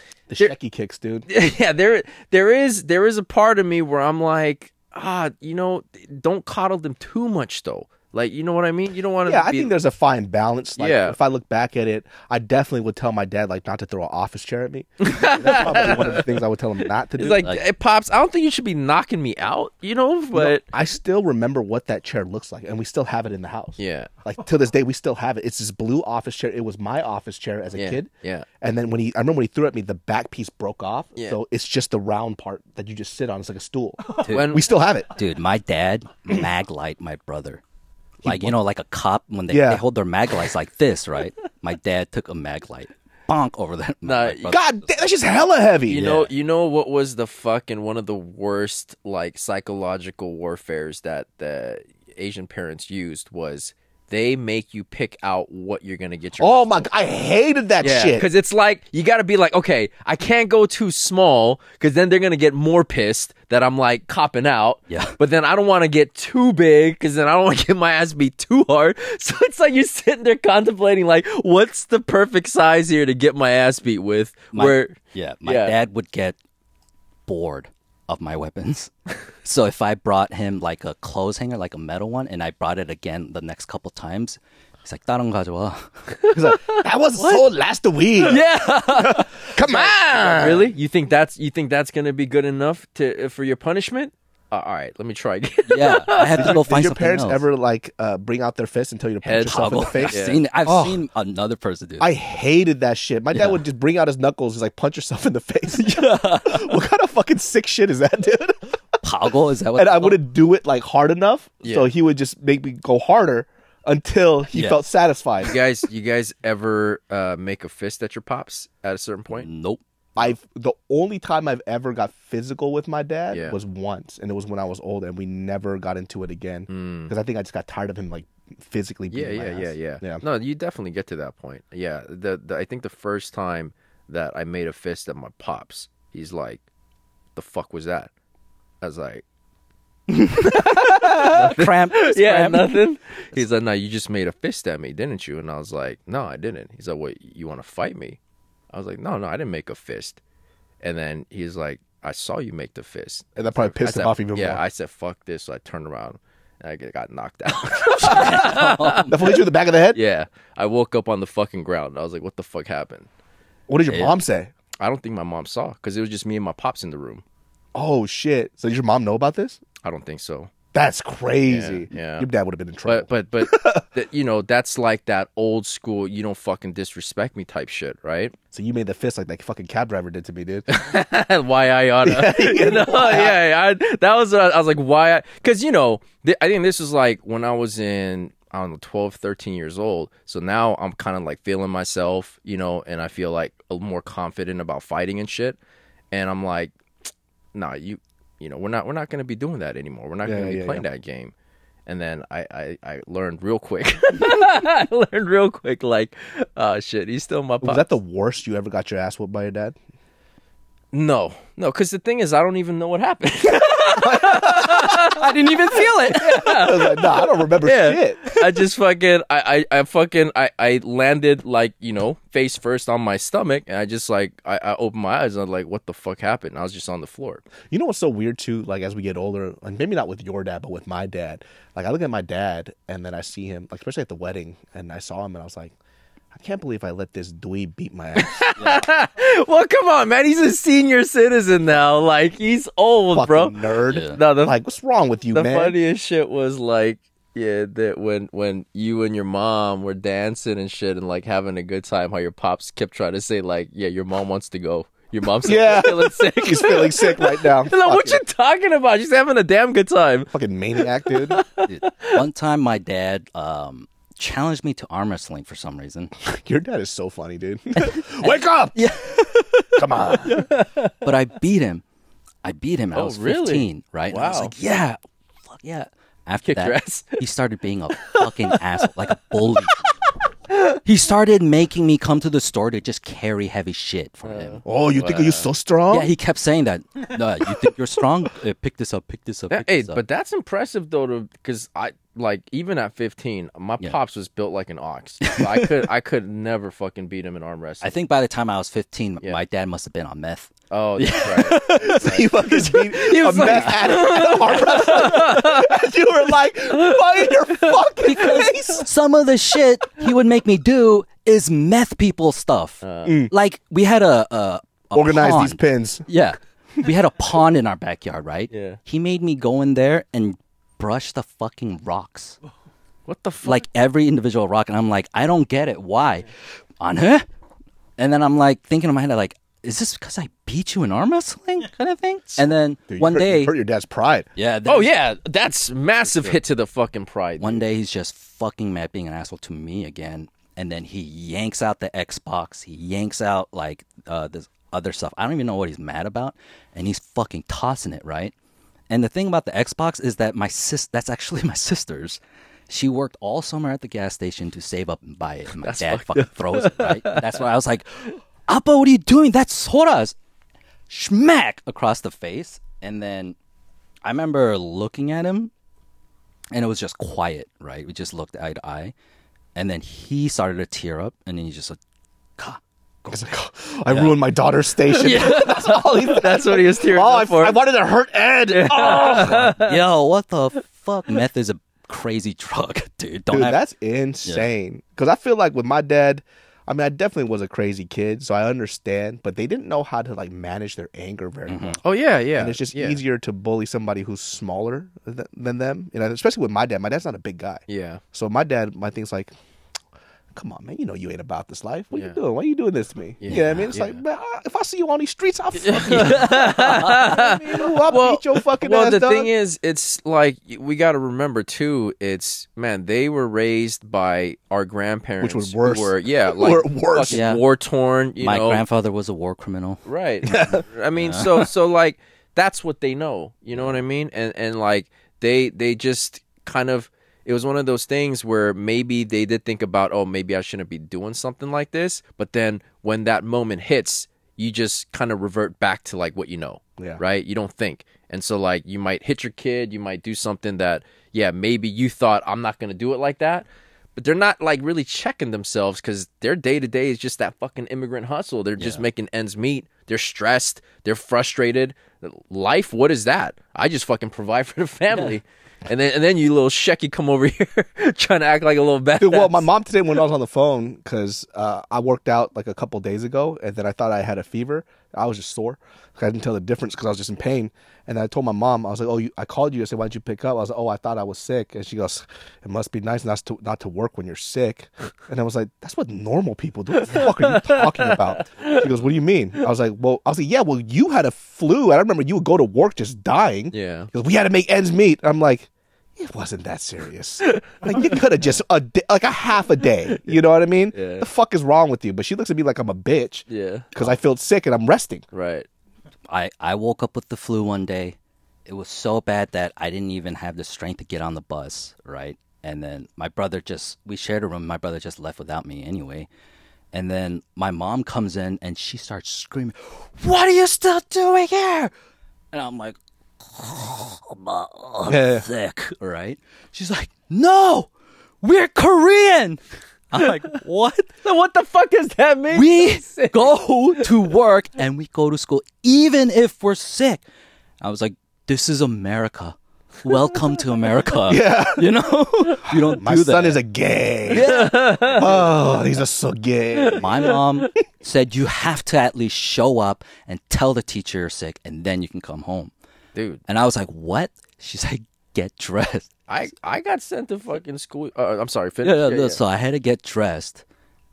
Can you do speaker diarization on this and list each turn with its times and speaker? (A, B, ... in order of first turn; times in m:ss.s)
0:00.3-0:01.3 A
0:01.3-0:09.7 B
0:09.2-0:17.4 A
0:10.8-0:11.2 B
0:15.0-0:16.3 B
0:17.2-0:20.6 B
0:20.3-0:28.1 A
0:23.8-0:24.1 B
0:27.7-0:28.5 B
0:28.6-0:35.1 A
0:34.2-0:34.6 C
0:34.3-0:34.6 B
0:35.1-0:37.6 C
0:38.2-0:38.6 A
0:38.2-0:44.6 C
0:39.5-0:39.8 A
0:44.0-0:44.6 B
0:44.5-0:46.3 A
0:45.9-0:56.9 B
0:56.4-0:58.3 A
0:57.8-1:15.8 B
1:04.9-1:05.2 C
1:14.5-1:16.4 C
1:17.3-1:18.9 C
1:19.4-1:26.0 C
1:26.2-1:27.4 B
1:26.3-1:28.4 A
1:28.2-1:36.6 B
1:28.4-1:29.2 C
1:29.0-1:30.7 A
1:35.7-1:37.4 C
1:36.4-1:41.0 A
1:39.2-1:40.4 B
1:39.4-1:42.1 C
1:42.0-1:48.8 A
1:43.3-1:43.6 C
1:45.7-1:46.8 C
1:49.0-1:50.2 C
1:49.8-1:55.6 A
1:51.6-1:51.9 B
1:54.5-1:54.8 C
1:55.4-1:59.5 B
1:59.3-1:59.8 C
2:00.2-2:10.2 A
2:03.3-2:03.6 B
2:06.7-2:07.1 B
2:09.1-2:16.6 B
2:17.3-2:18.1 B
2:18.8-2:19.2 B
2:20.1-2:22.8 C
2:20.4-2:28.2 B
2:28.7-2:30.2 B
2:30.8-2:43.1 B
2:33.4-2:34.6 A
2:37.7-2:39.4 C
2:39.1-2:40.0 A
2:43.7-2:44.5 A
2:43.9-2:44.1 C
2:44.8-2:47.2 B
2:47.7-2:49.6 A
2:49.8-2:50.5 B
2:50.7-2:53.8 A
2:51.5-2:52.3 B
2:52.8-2:58.3 B
2:58.5-3:00.7 A
3:00.7-3:15.6 B
3:02.0-3:03.4 A
3:16.1-3:16.7 B
3:17.5-3:21.3 B
3:20.2-3:20.8 A
3:21.9-3:27.9 B
3:27.6-3:29.8 A
3:30.9-3:47.4 B
3:33.9-3:35.2 A
3:34.5-3:37.0 C
3:36.5-3:38.2 A
3:38.4-3:38.6 C
3:47.7-3:55.7 A
3:56.3-3:58.4 A
3:58.2-4:03.6 B
4:03.1-4:05.7 A
4:03.9-4:04.2 C
4:04.1-4:04.6 B
4:05.3-4:20.3 B
4:15.4-4:18.2 A
4:20.3-4:21.4 A
4:21.1-4:22.2 B
4:21.7-4:26.1 C
4:26.2-4:28.8 A
4:27.8-4:30.5 C
4:29.8-4:30.4 A
4:30.3-4:30.9 B
4:31.0-4:31.8 C
4:32.4-4:35.0 C
4:32.9-4:34.5 B
4:35.5-4:39.9 C
4:36.4-4:37.2 B
4:38.0-4:38.6 B
4:40.8-4:44.6 C
4:44.2-4:45.5 B
4:44.6-4:46.1 A
4:45.9-4:50.0 C
4:49.5-4:57.9 B
4:55.2-4:55.8 C
4:57.8-5:05.5 C
5:00.7-5:02.3 B
5:01.6-5:08.9 A
5:03.0-5:05.8 B
5:06.8-5:08.2 B
5:08.0-5:22.4 C
5:12.8-5:13.1 B
5:13.0-5:13.3 A
5:15.0-5:16.0 A
5:18.5-5:18.8 B
5:23.1-5:23.6 B
5:23.4-5:26.3 C
5:26.8-5:27.3 C
5:28.0-5:33.5 C
5:32.9-5:34.3 A
5:34.4-5:34.9 C
5:34.7-5:37.6 B
5:36.0-5:36.4 C
5:37.4-5:48.3 C
5:48.9-6:00.1 C
5:55.6-5:57.4 B
6:00.9-6:03.3 C
6:04.0-6:05.5 C
6:06.5-6:08.9 C
6:09.6-6:11.8 C
6:12.4-6:13.3 C
6:13.1-6:19.6 A
6:13.9-6:14.2 C
6:15.0-6:17.6 B
6:15.0-6:15.9 C
6:18.5-6:19.8 B
6:19.1-6:23.6 C
6:23.3-6:31.8 A
6:31.5-6:31.8 C
6:31.8-6:33.0 B
6:32.4-6:39.3 A
6:37.7-6:38.0 B
6:40.3-6:49.3 A
6:43.2-6:44.0 B
6:43.3-6:43.7 C
6:45.6-6:58.6 B
6:45.9-6:47.1 C
6:55.2-6:57.2 A
6:57.1-6:57.4 C
6:58.2-7:00.4 C
6:59.8-7:39.5 B
7:00.3-7:00.6 A
7:01.0-7:01.4 C
7:28.6-7:28.8 C
7:39.0-8:15.1 A
7:56.8-7:58.7 B
8:03.5-8:03.9 B
8:07.3-8:08.0 B
8:10.7-8:11.1 B
8:13.3-8:13.9 B
8:15.1-8:15.5 B
8:16.1-8:26.1 C
8:26.7-8:31.7 C
8:32.3-8:37.7 C
8:34.9-8:35.3 A
8:38.2-8:40.9 C
8:41.0-8:43.9 B
8:42.3-8:47.0 C
8:47.6-8:53.4 C
8:51.1-8:51.7 A
8:52.5-8:56.9 A
8:54.1-8:55.0 C
8:54.1-8:55.3 B
8:56.6-8:57.2 B
8:56.8-9:02.5 C
9:02.9-9:03.2 B
9:03.3-9:05.9 C
9:06.1-9:09.2 B
9:08.6-9:10.4 C